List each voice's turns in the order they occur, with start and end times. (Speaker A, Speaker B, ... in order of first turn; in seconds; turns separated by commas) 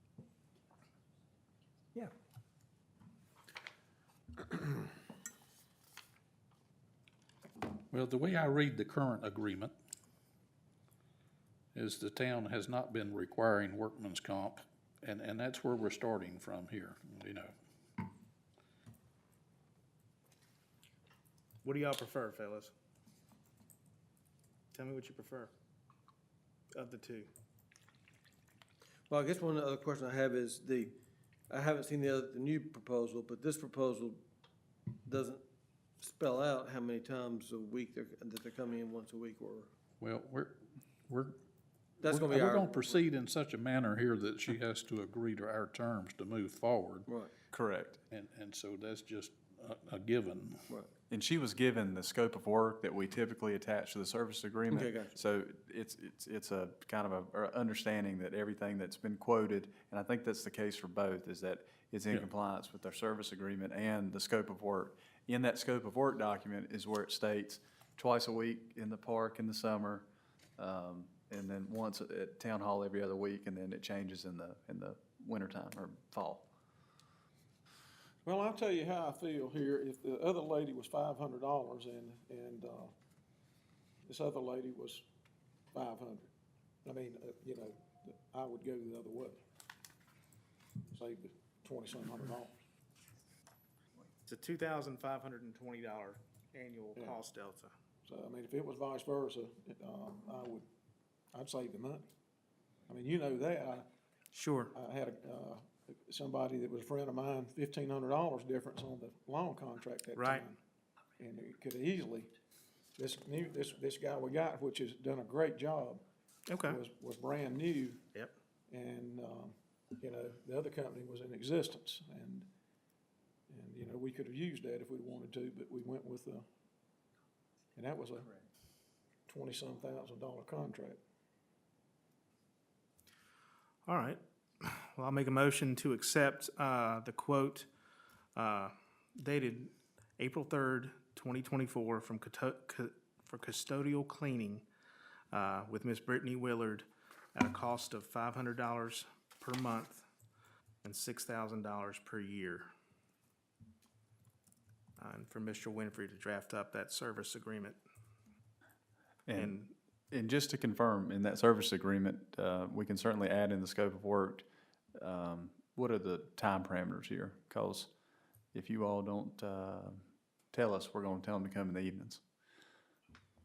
Speaker A: 7.9-9.7, Speaker A: 11.7-17.5, Speaker B: 21.6-22.7, Speaker B: 24.7-25.5, Speaker B: 26.7-27.3, Speaker C: 29.1-31.0, Speaker C: 31.5-34.2, Speaker C: 35.0-35.4, Speaker C: 36.0-39.7, Speaker A: 40.0-41.4, Speaker C: 42.0-43.0, Speaker A: 42.0-47.1, Speaker C: 47.1-47.3, Speaker D: 47.5-48.0, Speaker A: 48.1-50.7, Speaker D: 51.1-70.1, Speaker C: 54.7-55.2, Speaker D: 70.6-76.5, Speaker E: 78.2-82.9, Speaker E: 84.0-85.0, Speaker E: 85.7-86.2, Speaker E: 86.8-89.4, Speaker E: 90.9-92.6, Speaker B: 94.2-97.7, Speaker E: 98.0-100.7, Speaker E: 101.3-102.1, Speaker E: 102.9-103.8, Speaker B: 104.3-104.7, Speaker E: 104.7-110.5, Speaker B: 110.2-110.5, Speaker E: 111.2-112.3, Speaker E: 113.0-116.0, Speaker B: 116.5-116.8, Speaker E: 116.7-118.0, Speaker E: 118.7-122.5, Speaker E: 123.5-126.4, Speaker E: 127.8-128.3, Speaker E: 129.3-131.0, Speaker B: 133.8-137.7, Speaker B: 138.3-144.6, Speaker B: 145.3-150.0, Speaker B: 150.8-152.7, Speaker B: 155.0-157.8, Speaker D: 159.3-159.6, Speaker B: 159.3-159.7, Speaker D: 160.1-164.4, Speaker D: 165.0-167.9, Speaker D: 168.5-172.2